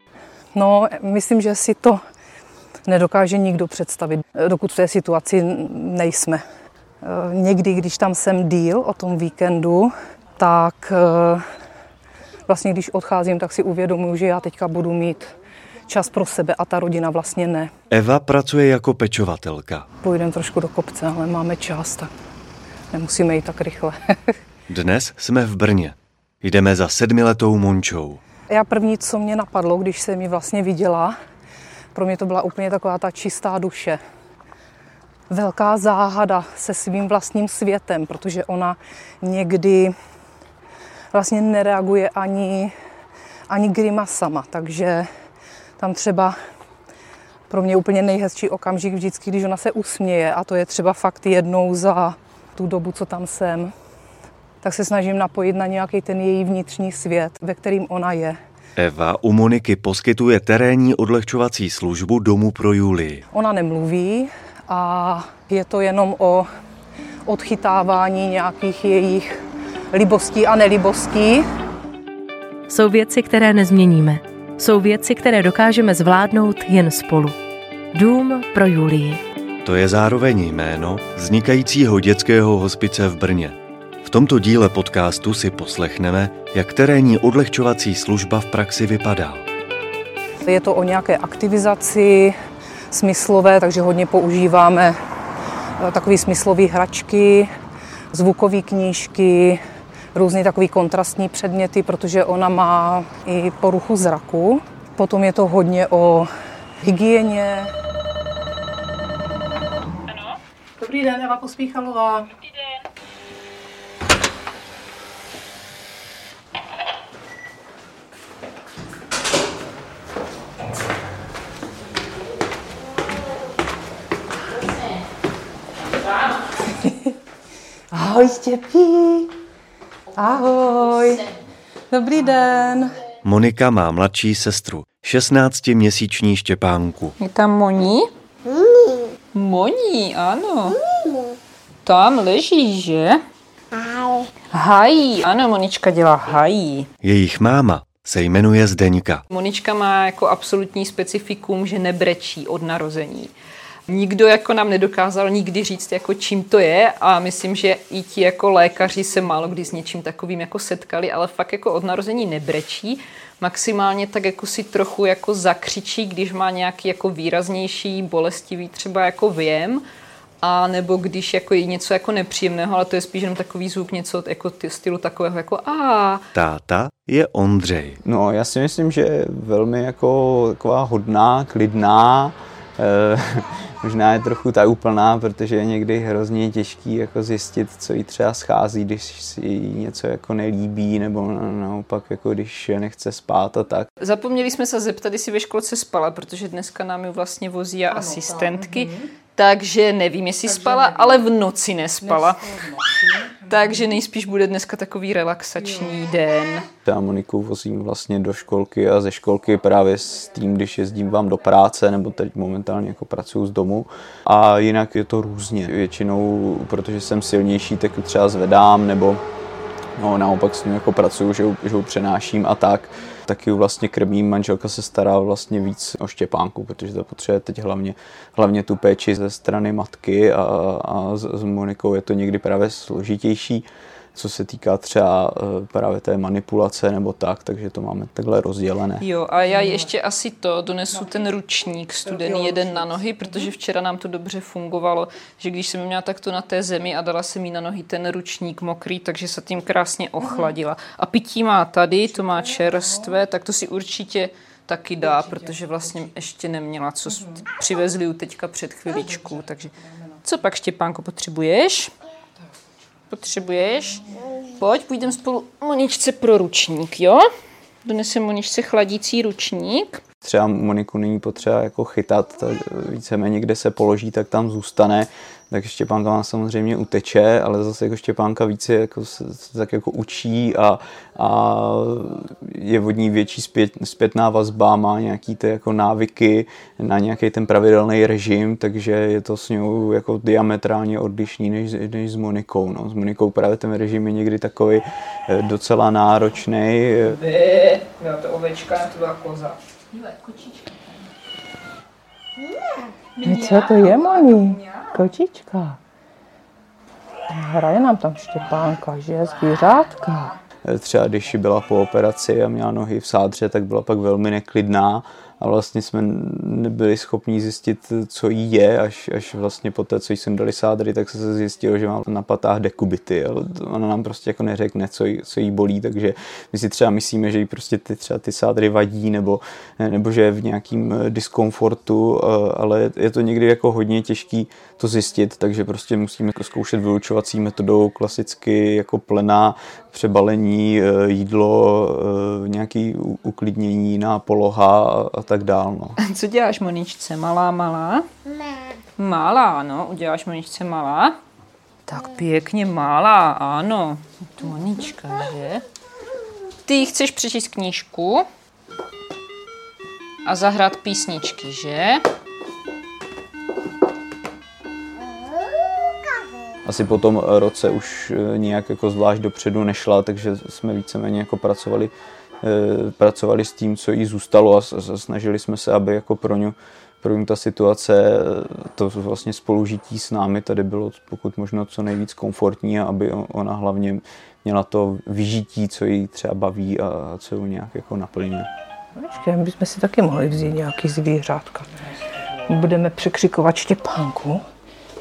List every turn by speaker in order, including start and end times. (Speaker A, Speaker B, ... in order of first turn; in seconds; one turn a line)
Speaker A: 0.6-2.0
Speaker A: 2.9-6.4
Speaker A: 7.0-11.4
Speaker A: 12.5-15.3
Speaker A: 15.9-17.7
Speaker B: 17.9-19.9
Speaker A: 20.0-22.1
Speaker A: 22.9-23.9
Speaker B: 24.7-28.2
Speaker A: 28.5-31.1
Speaker A: 31.9-34.0
Speaker A: 35.3-40.0
Speaker A: 41.1-42.7
Speaker A: 43.5-45.1
Speaker A: 45.8-46.4
Speaker A: 47.5-53.7
Speaker A: 54.6-58.4
Speaker B: 58.8-63.2
Speaker A: 63.3-66.5
Speaker A: 67.3-71.5
Speaker C: 72.7-77.4
Speaker C: 77.9-79.2
Speaker B: 79.7-83.6
Speaker B: 84.1-89.5
Speaker A: 90.5-92.3
Speaker A: 92.9-95.0
Speaker A: 95.8-97.5
Speaker A: 98.1-99.6
Speaker A: 100.1-106.3
Speaker A: 106.8-107.7
Speaker D: 110.1-110.4
Speaker A: 110.8-112.3
Speaker A: 126.8-127.1
Speaker A: 127.9-129.3
Speaker A: 130.2-131.3
Speaker A: 131.9-133.0
Speaker B: 133.3-137.1
Speaker D: 137.2-138.1
Speaker D: 139.3-140.8
Speaker D: 141.8-143.2
Speaker D: 144.5-146.9
Speaker B: 147.0-149.2
Speaker D: 149.3-153.3
Speaker D: 153.9-169.8
Speaker D: 170.4-176.2
Speaker B: 176.3-178.0
Speaker E: 178.0-193.9
Speaker D: 194.0-202.4
Speaker A: 197.9-199.1
Speaker A: 200.5-201.2
Speaker A: 202.0-203.9
Speaker D: 203.5-206.7
Speaker E: 206.9-219.2
Speaker E: 220.0-239.1
Speaker D: 239.0-259.7
Speaker A: 239.6-239.8
Speaker A: 242.1-242.9
Speaker A: 255.2-255.6
Speaker A: 259.1-259.4
Speaker D: 260.2-261.9
Speaker D: 263.1-267.2
Speaker D: 267.8-270.0
Speaker E: 270.2-297.2
Speaker D: 297.0-301.1
Speaker D: 303.2-305.1
Speaker A: 303.2-305.8
Speaker A: 307.3-310.4
Speaker E: 310.6-346.0
Speaker D: 346.0-348.1
Speaker D: 349.0-351.2
Speaker D: 351.9-355.6
Speaker D: 356.6-358.3
Speaker D: 360.2-362.0
Speaker E: 366.6-388.5
Speaker A: 389.0-391.7
Speaker A: 392.5-394.4